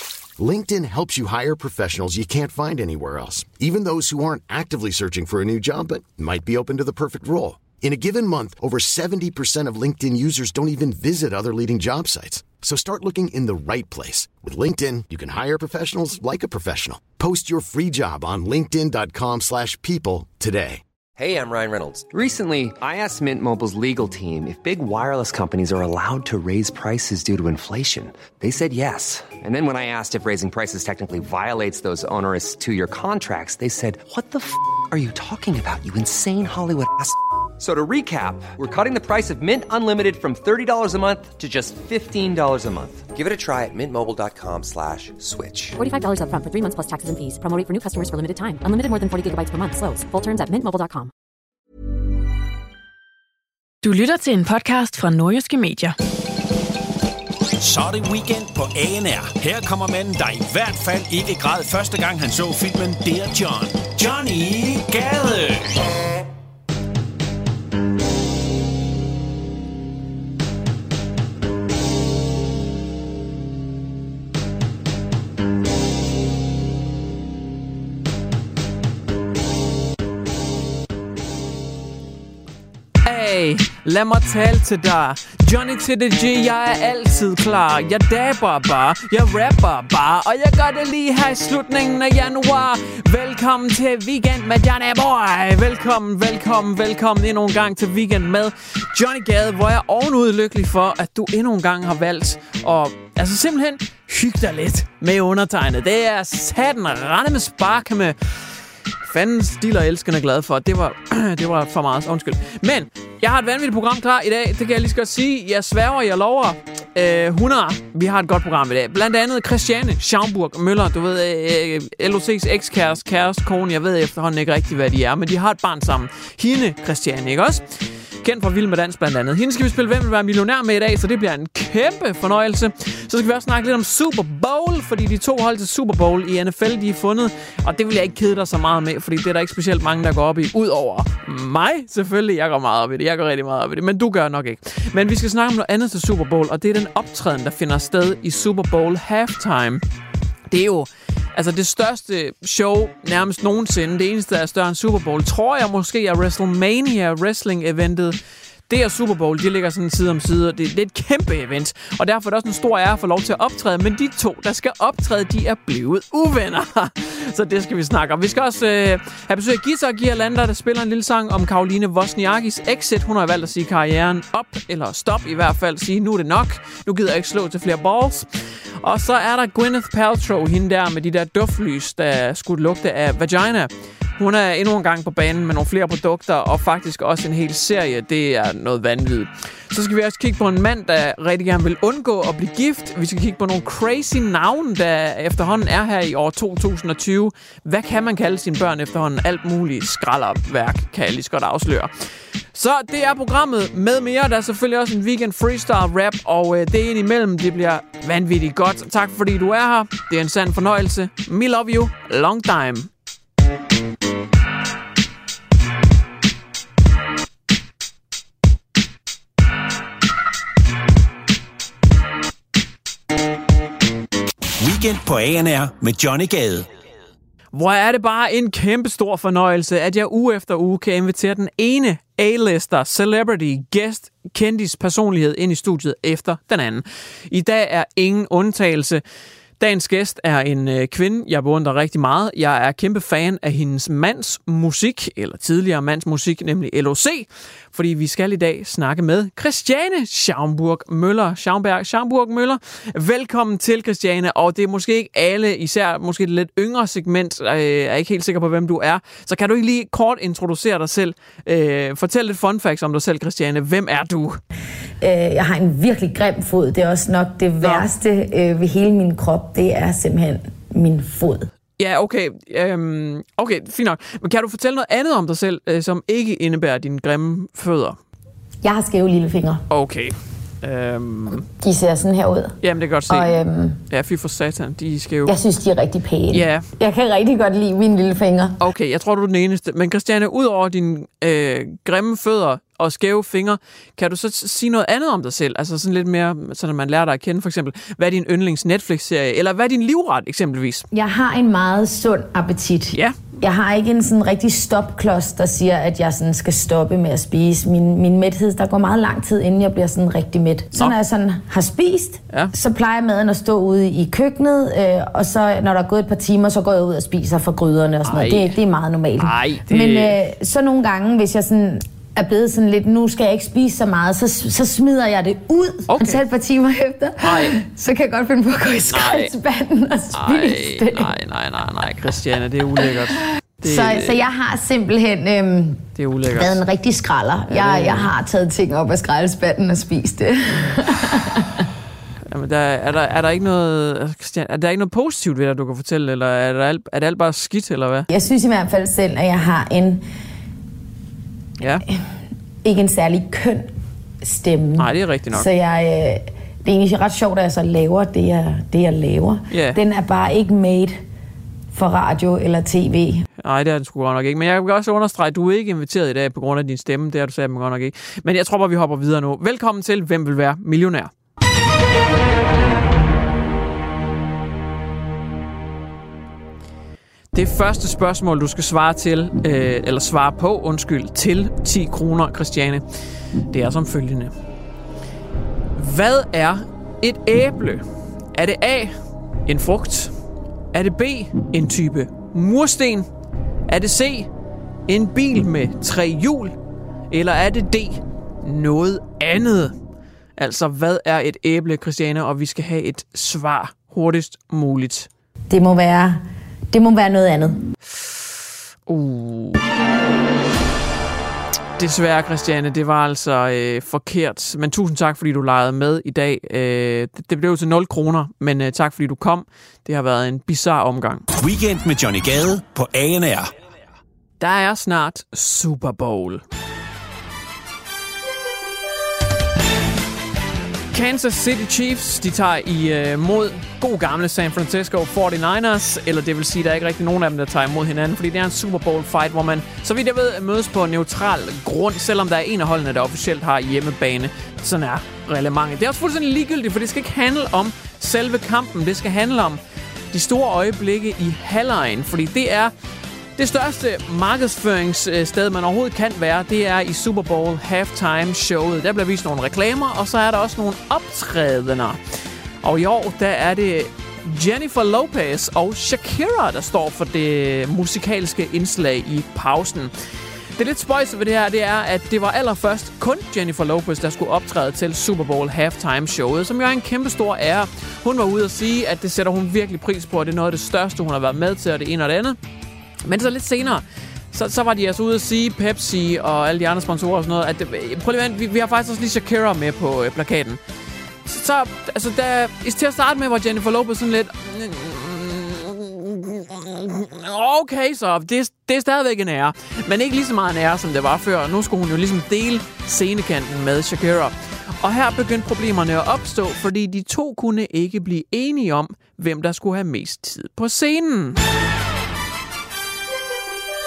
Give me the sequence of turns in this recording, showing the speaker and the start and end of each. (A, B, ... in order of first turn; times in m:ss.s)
0:00.4-0:20.8 A
0:21.2-0:45.8 B
0:45.8-0:51.1 C
0:53.8-0:56.0 D
0:57.6-1:05.8 E
1:23.0-1:48.2 F
1:49.0-2:07.6 F
2:08.2-2:29.8 F
2:30.5-2:38.2 F
2:38.7-2:58.3 F
2:58.8-3:21.9 F
3:22.5-3:32.9 F
3:44.6-3:46.7 E
3:47.5-3:59.0 F
3:59.6-4:24.4 F
4:25.0-4:31.5 G
4:27.6-4:27.9 F
4:31.8-4:38.0 F
4:38.6-4:39.6 G
4:39.7-4:41.4 F
4:41.6-4:42.6 G
4:42.6-4:43.3 F
4:43.1-4:43.8 G
4:43.9-4:45.3 F
4:45.2-4:48.6 G
4:46.3-4:46.7 F
4:48.6-5:00.9 F
5:00.9-5:31.2 G
5:02.9-5:03.2 F
5:18.0-5:18.6 F
5:19.2-5:20.2 F
5:25.9-5:26.2 F
5:27.2-5:27.6 F
5:28.9-5:29.3 F
5:30.1-5:34.2 F
5:33.6-5:41.6 G
5:36.0-5:36.6 F
5:37.5-5:38.1 F
5:42.3-5:48.1 F
5:48.1-5:50.0 G
5:51.6-5:51.8 F
5:52.6-5:53.7 G
5:54.2-6:01.0 G
5:54.8-5:55.5 F
5:59.5-5:59.8 F
6:01.7-6:03.2 G
6:03.4-6:11.1 F
6:17.3-6:22.8 F
6:23.5-6:24.3 F
6:25.8-6:27.8 F
6:28.3-6:28.9 F
6:29.4-6:30.1 F
6:30.7-6:33.1 F
6:33.7-6:34.3 F
6:34.9-6:36.6 F
6:37.1-6:39.8 F
6:40.4-6:45.1 F
6:45.5-6:47.6 G
6:48.9-6:49.6 F
6:51.8-7:01.2 F
7:01.4-7:03.5 E
7:04.4-7:06.4 F
7:10.9-7:29.6 F
7:30.1-7:32.7 F
7:33.4-7:42.0 F
7:42.6-7:49.9 F
7:50.6-8:02.4 F
8:03.0-8:10.6 F
8:11.2-8:31.4 F